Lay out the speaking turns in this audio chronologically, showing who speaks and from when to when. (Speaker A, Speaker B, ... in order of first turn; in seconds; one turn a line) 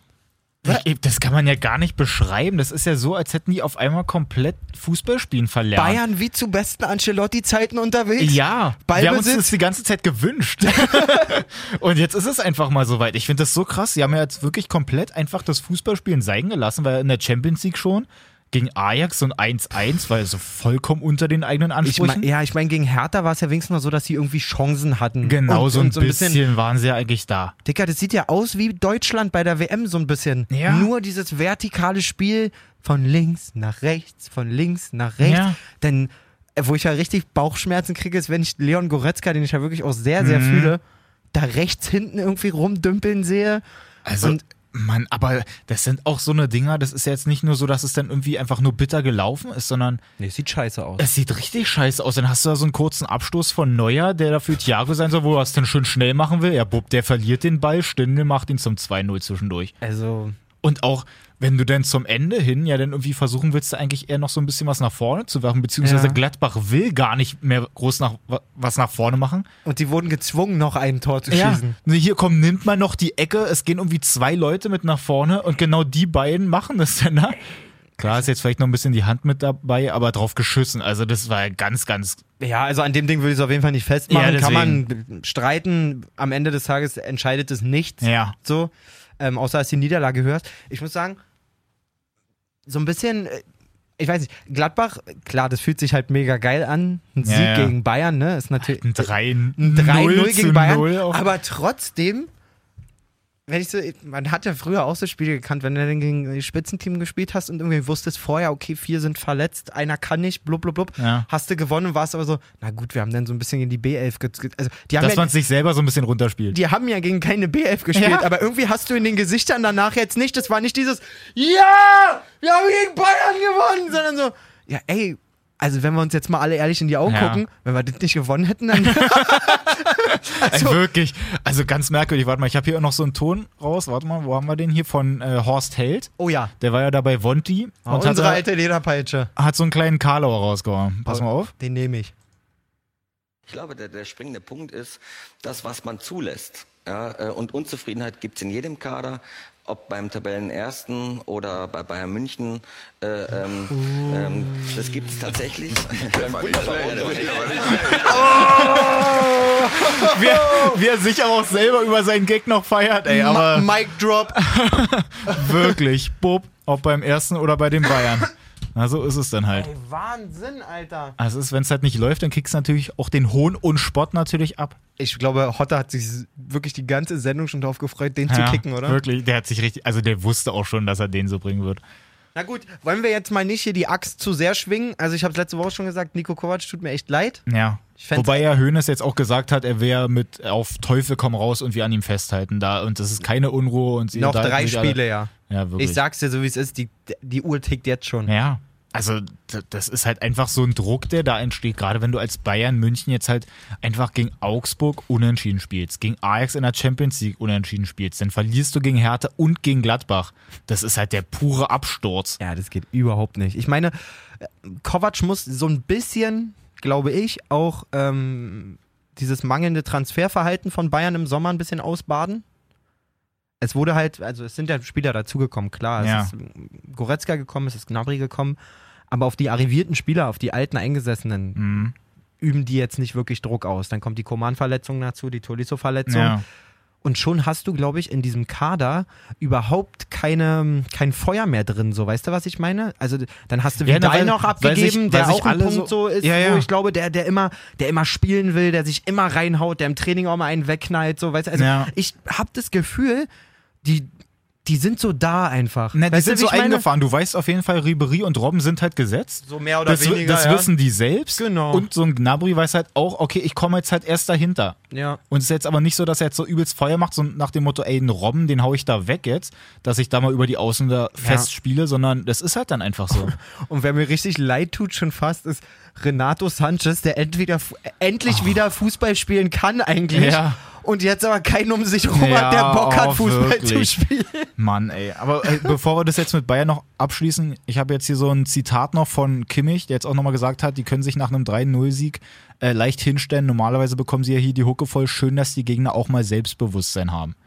Speaker A: 0.6-6.0
Speaker B: 5.7-9.5
Speaker A: 8.2-22.3
Speaker B: 10.6-11.4
Speaker B: 21.8-26.4
Speaker A: 25.2-27.5
Speaker B: 27.6-40.8
Speaker A: 30.5-30.9
Speaker A: 35.2-35.6
Speaker A: 40.2-40.7
Speaker B: 41.3-43.6
Speaker A: 44.0-50.0
Speaker B: 44.2-44.4
Speaker B: 50.2-51.1
Speaker A: 51.0-59.7
Speaker B: 59.8-60.3
Speaker A: 60.6-69.5
Speaker B: 65.8-66.2
Speaker B: 69.6-71.8
Speaker A: 71.3-77.4
Speaker A: 78.0-82.2
Speaker B: 82.4-91.2
Speaker A: 84.1-84.8
Speaker A: 88.0-88.3
Speaker B: 92.7-93.4
Speaker B: 94.0-102.3
Speaker A: 97.2-97.7
Speaker A: 98.6-101.2
Speaker B: 103.5-115.3
Speaker A: 111.0-111.2
Speaker A: 115.0-116.6
Speaker B: 116.5-130.8
Speaker A: 117.9-118.3
Speaker A: 127.1-127.4
Speaker A: 128.7-138.4
Speaker B: 136.2-136.5
Speaker B: 137.8-139.3
Speaker A: 139.3-141.5
Speaker B: 141.1-142.1
Speaker C: 143.5-158.0
Speaker B: 153.7-154.9
Speaker B: 157.9-160.8
Speaker A: 158.2-163.7
Speaker B: 163.1-164.4
Speaker A: 164.3-169.7
Speaker B: 165.3-165.7
Speaker B: 169.5-171.2
Speaker A: 171.2-174.8
Speaker B: 175.0-179.0
Speaker A: 178.3-181.8
Speaker B: 182.3-187.4
Speaker A: 187.5-196.0
Speaker B: 188.0-188.4
Speaker B: 194.1-198.3
Speaker A: 198.3-212.4
Speaker B: 212.4-222.4
Speaker B: 223.6-228.6
Speaker A: 226.0-226.3
Speaker B: 229.1-231.6
Speaker A: 231.6-231.9
Speaker B: 232.4-236.4
Speaker A: 236.1-236.4
Speaker B: 237.0-253.3
Speaker A: 243.8-246.7
Speaker A: 251.5-251.9
Speaker B: 253.8-254.1
Speaker B: 254.6-256.8
Speaker A: 255.9-264.8
Speaker B: 259.4-260.7
Speaker B: 261.4-261.9
Speaker B: 264.9-265.2
Speaker A: 265.3-273.4
Speaker B: 271.2-271.5
Speaker B: 273.3-284.5
Speaker A: 278.3-278.5
Speaker A: 280.1-280.6
Speaker A: 282.1-284.0
Speaker A: 284.6-297.4
Speaker B: 285.4-285.7